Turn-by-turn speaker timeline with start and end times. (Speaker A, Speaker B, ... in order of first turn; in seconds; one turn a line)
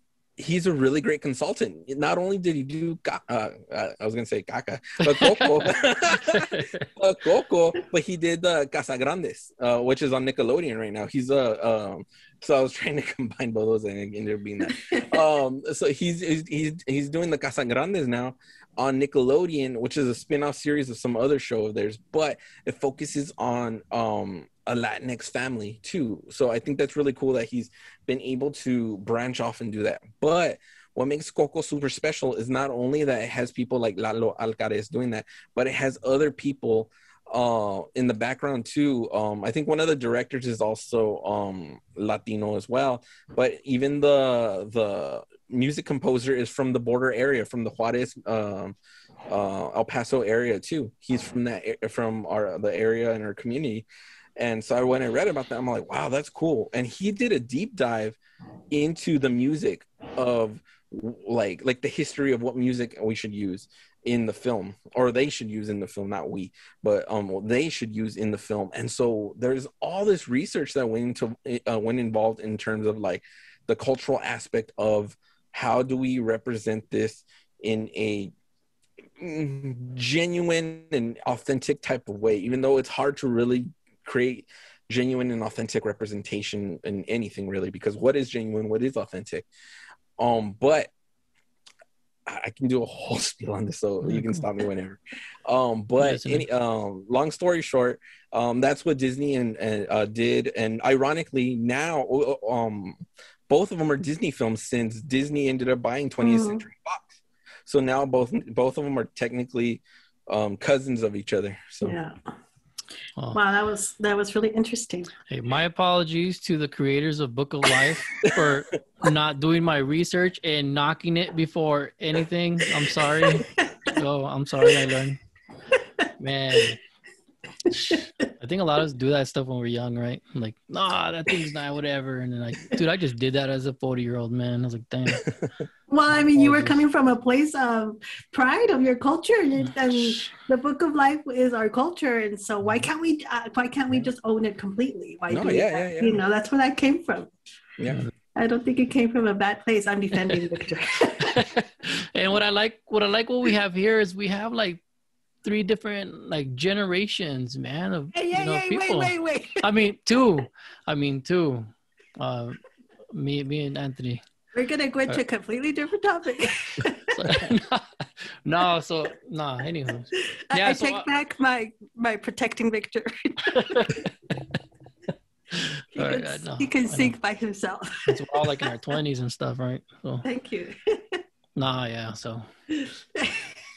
Speaker A: 0.4-48.8
Speaker B: 5.0-6.9
Speaker A: 49.3-58.2
Speaker A: 58.7-78.3
Speaker A: 79.2-89.5
Speaker A: 90.2-90.9
Speaker A: 92.3-112.0
Speaker B: 94.0-94.4
Speaker B: 96.0-96.5
Speaker C: 106.2-106.6
Speaker C: 111.8-112.1
Speaker C: 113.3-115.1
Speaker B: 115.3-125.2
Speaker A: 118.2-118.5
Speaker C: 123.3-123.6
Speaker B: 126.2-126.8
Speaker B: 127.7-135.3
Speaker A: 135.2-135.5
Speaker C: 135.9-147.3
Speaker B: 136.4-136.8
Speaker A: 145.3-146.2
Speaker A: 147.8-148.1
Speaker C: 148.4-151.5
Speaker B: 151.2-154.8
Speaker B: 155.4-162.6
Speaker C: 158.2-159.6
Speaker B: 163.1-164.2
Speaker C: 164.5-167.4
Speaker B: 166.8-171.1
Speaker C: 170.3-174.1
Speaker B: 173.5-174.0
Speaker C: 175.9-178.7
Speaker B: 176.0-177.1
Speaker B: 178.1-180.3
Speaker C: 180.2-181.2
Speaker B: 181.6-182.5
Speaker C: 182.8-183.5